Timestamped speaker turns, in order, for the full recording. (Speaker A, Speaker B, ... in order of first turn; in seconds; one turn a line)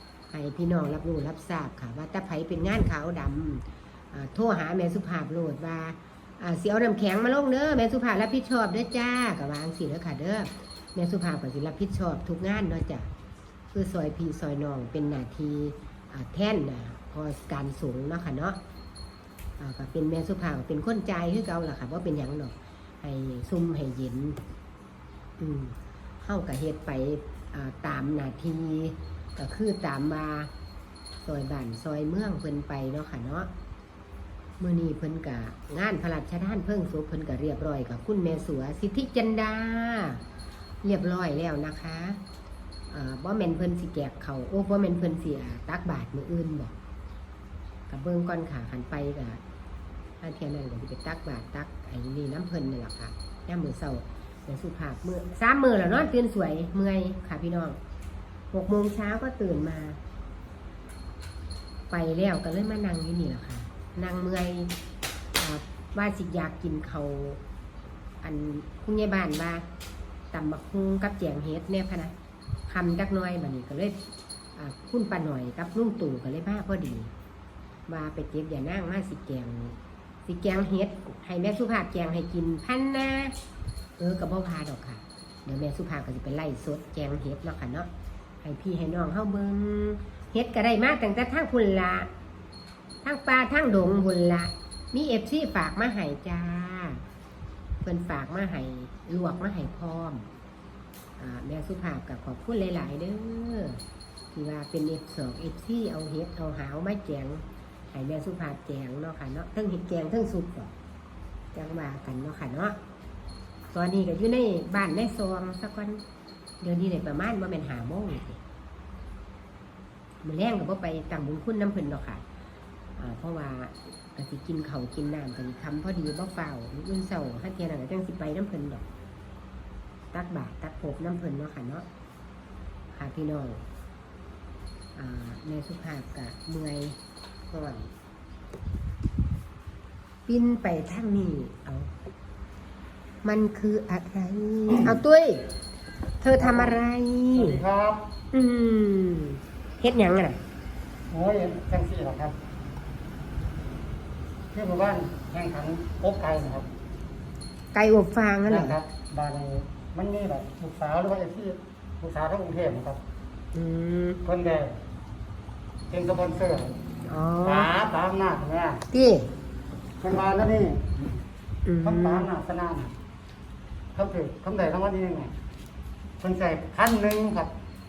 Speaker A: 0.3-13.1
Speaker A: 13.7-18.6
Speaker A: 19.6-24.4
Speaker A: 25.4-30.5
Speaker A: 31.2-33.5
Speaker A: 34.6-40.2
Speaker A: 40.8-42.2
Speaker A: 42.9-46.7
Speaker A: 47.9-49.4
Speaker A: 50.2-57.8
Speaker A: 58.5-60.0
Speaker A: 61.9-64.7
Speaker A: 65.4-67.4
Speaker A: 68.2-69.6
Speaker A: 70.3-72.1
Speaker A: 72.7-74.0
Speaker A: 74.5-77.1
Speaker A: 77.9-83.3
Speaker A: 84.0-87.9
Speaker A: 88.4-92.1
Speaker A: 93.0-97.0
Speaker A: 97.8-100.2
Speaker A: 101.2-103.8
Speaker A: 104.3-110.7
Speaker A: 111.5-112.8
Speaker A: 113.7-116.0
Speaker A: 116.6-118.4
Speaker A: 120.2-122.2
Speaker A: 123.0-128.8
Speaker A: 130.1-131.8
Speaker A: 132.9-133.6
Speaker A: 134.9-137.0
Speaker A: 137.5-137.9
Speaker A: 140.3-141.9
Speaker A: 143.2-145.5
Speaker A: 146.2-147.6
Speaker B: 146.4-148.0
Speaker A: 148.3-150.4
Speaker B: 151.1-152.4
Speaker B: 154.5-156.7
Speaker A: 157.7-158.8
Speaker B: 158.4-163.0
Speaker A: 163.5-164.2
Speaker B: 164.2-164.8
Speaker B: 165.9-166.8
Speaker A: 167.1-167.7
Speaker B: 167.4-168.8
Speaker A: 168.9-169.3
Speaker B: 170.0-171.1
Speaker A: 171.7-172.3
Speaker B: 171.8-172.9
Speaker B: 173.9-175.3
Speaker B: 176.2-177.5